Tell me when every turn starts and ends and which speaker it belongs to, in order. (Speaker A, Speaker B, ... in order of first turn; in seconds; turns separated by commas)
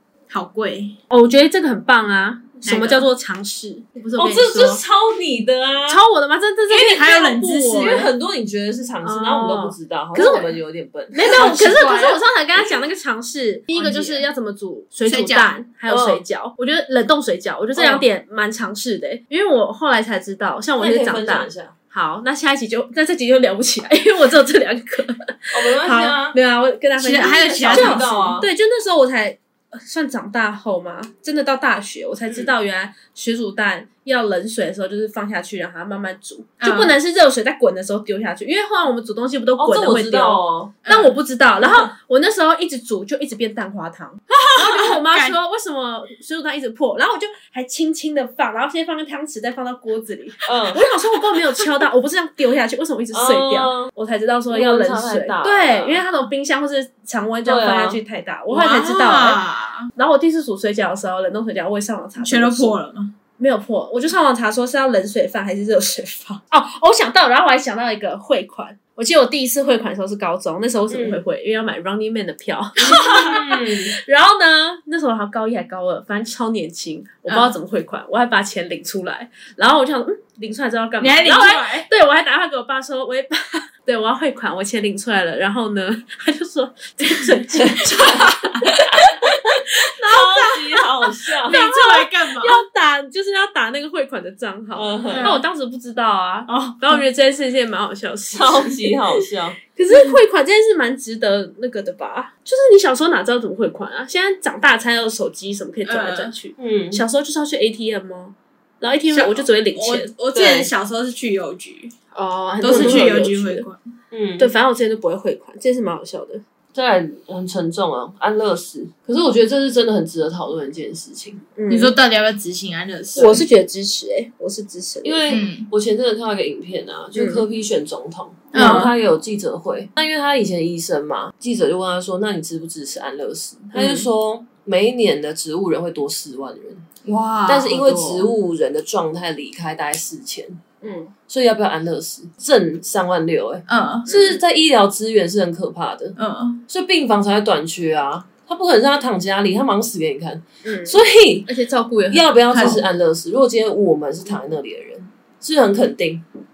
Speaker A: 0.3-1.0, Speaker B: 1.1-4.8, Speaker A: 2.6-3.0, Speaker C: 4.2-6.0, Speaker B: 5.9-8.1, Speaker A: 6.7-8.1, Speaker C: 7.7-11.7, Speaker B: 9.0-10.6, Speaker B: 11.1-59.4, Speaker A: 11.2-12.2, Speaker A: 13.7-14.3, Speaker A: 15.1-15.5, Speaker C: 15.9-16.2, Speaker C: 17.7-18.0, Speaker C: 20.8-21.7, Speaker C: 25.5-26.4, Speaker A: 27.0-28.3, Speaker C: 27.2-28.5, Speaker A: 36.6-37.0, Speaker C: 39.6-40.8, Speaker A: 40.9-41.2, Speaker C: 41.6-41.9, Speaker A: 44.3-45.4, Speaker C: 50.5-50.8, Speaker C: 53.1-53.9, Speaker C: 54.5-56.0, Speaker C: 57.4-58.0, Speaker A: 58.5-59.9, Speaker B: 59.9-62.7, Speaker A: 62.2-63.1, Speaker B: 63.4-90.8, Speaker C: 70.9-71.2, Speaker C: 72.8-73.9, Speaker A: 77.3-77.5, Speaker A: 81.0-81.9, Speaker C: 87.5-88.4, Speaker C: 89.6-91.6, Speaker B: 91.4-110.1, Speaker A: 91.5-92.6, Speaker C: 94.7-95.3, Speaker A: 95.1-95.4, Speaker A: 96.5-97.0, Speaker C: 98.3-99.6, Speaker A: 105.8-106.3, Speaker C: 106.6-107.0, Speaker A: 109.1-111.9, Speaker C: 110.3-110.7, Speaker B: 112.1-113.7, Speaker A: 112.6-113.8, Speaker C: 112.7-113.1, Speaker C: 114.1-114.5, Speaker B: 114.4-116.4, Speaker C: 116.7-121.5, Speaker B: 121.5-121.9, Speaker A: 121.7-123.4, Speaker C: 123.1-123.4, Speaker B: 123.2-125.2, Speaker C: 125.0-136.9, Speaker A: 125.3-125.7, Speaker B: 127.1-127.5, Speaker A: 128.5-128.9, Speaker B: 128.5-128.9, Speaker B: 133.7-134.1, Speaker A: 137.0-138.3, Speaker C: 137.4-140.6, Speaker B: 140.8-141.1, Speaker C: 141.3-146.2, Speaker A: 143.7-144.1, Speaker B: 144.1-144.3, Speaker A: 146.2-146.6, Speaker C: 146.7-151.5, Speaker B: 150.6-152.7, Speaker C: 152.1-156.2, Speaker A: 152.5-152.8